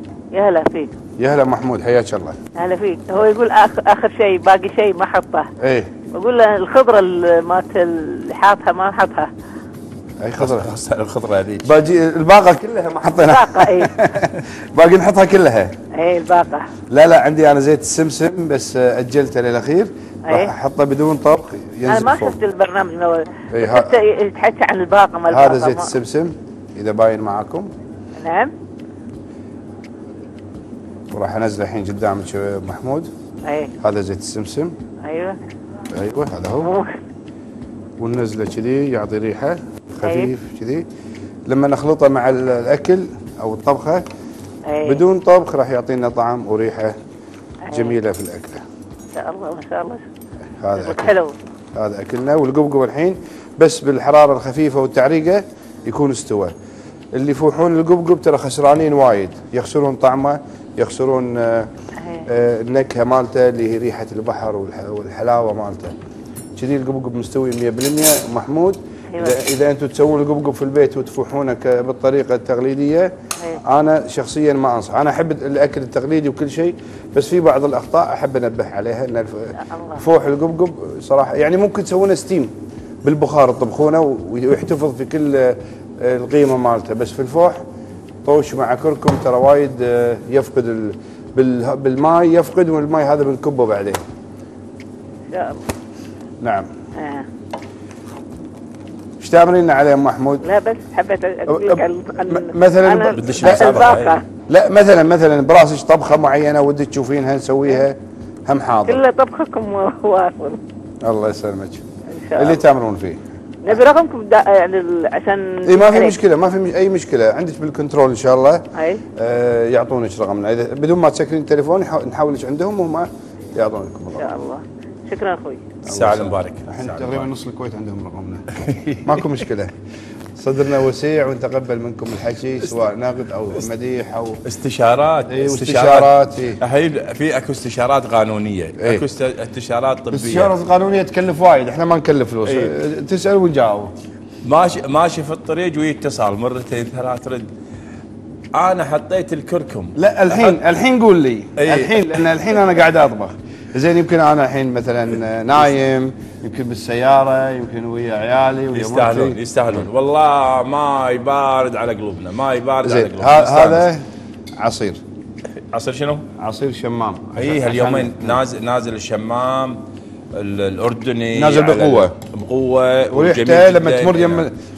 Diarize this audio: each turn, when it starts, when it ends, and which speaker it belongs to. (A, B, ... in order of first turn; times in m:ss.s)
0:00.3-0:00.9 A
0:01.2-0:02.4 B
0:02.6-0:05.5 A
0:05.6-0:05.9 B
0:06.1-0:09.3 A
0:10.2-0:10.7 B
0:10.4-0:11.7 C
0:11.6-0:15.8 B
0:13.2-0:13.9 A
0:15.9-0:16.7 A
0:16.9-0:22.4 B
0:21.9-0:25.9 A
0:23.5-0:24.0 B
0:25.3-0:27.7 B
0:28.2-0:28.5 A
0:31.1-0:33.1 B
0:33.4-0:33.7 A
0:33.8-0:34.7 B
0:35.0-0:35.4 A
0:35.9-0:36.7 B
0:36.6-0:36.9 A
0:38.0-0:40.8 B
0:40.0-0:40.3 A
0:41.5-0:44.0 B
0:44.7-0:45.0 A
0:44.8-0:47.0 B
0:47.7-0:48.0 A
0:47.7-0:48.6 B
0:49.1-0:50.0 A
0:50.6-0:51.2 B
0:50.8-0:51.3 A
0:51.7-0:56.5 B
0:57.1-1:01.7 B
1:02.0-1:02.2 A
1:02.3-1:05.9 B
1:06.6-1:13.1 B
1:13.6-1:27.6 B
1:19.7-1:20.0 A
1:28.2-1:34.0 B
1:35.3-1:35.6 A
1:36.4-1:36.7 B
1:37.0-1:37.2 A
1:39.2-1:40.4 B
1:40.4-1:44.2 A
1:41.5-1:49.0 B
1:43.1-1:44.2 C
1:48.9-1:50.6 A
1:51.0-1:51.8 B
1:52.1-1:52.6 A
1:52.4-1:53.8 B
1:53.6-1:56.2 A
1:55.6-1:58.6 B
1:58.7-1:59.0 A
1:59.2-2:04.3 B
2:04.2-2:05.6 A
2:05.8-2:07.3 C
2:05.9-2:08.4 B
2:08.5-2:09.4 C
2:09.0-2:09.8 B
2:10.4-2:14.4 B
2:14.4-2:20.5 C
2:15.2-2:16.6 B
2:18.8-2:19.0 B
2:20.1-2:23.9 B
2:22.4-2:22.8 C
2:24.4-2:27.5 C
2:28.5-2:30.6 C
2:30.0-2:39.4 B
2:31.6-2:32.3 C
2:38.7-2:43.9 C
2:42.8-2:45.0 B
2:45.7-2:46.2 C
2:46.4-2:48.4 B
2:47.4-2:49.8 C
2:50.3-2:54.5 C
2:51.3-2:52.1 B
2:53.1-2:54.5 B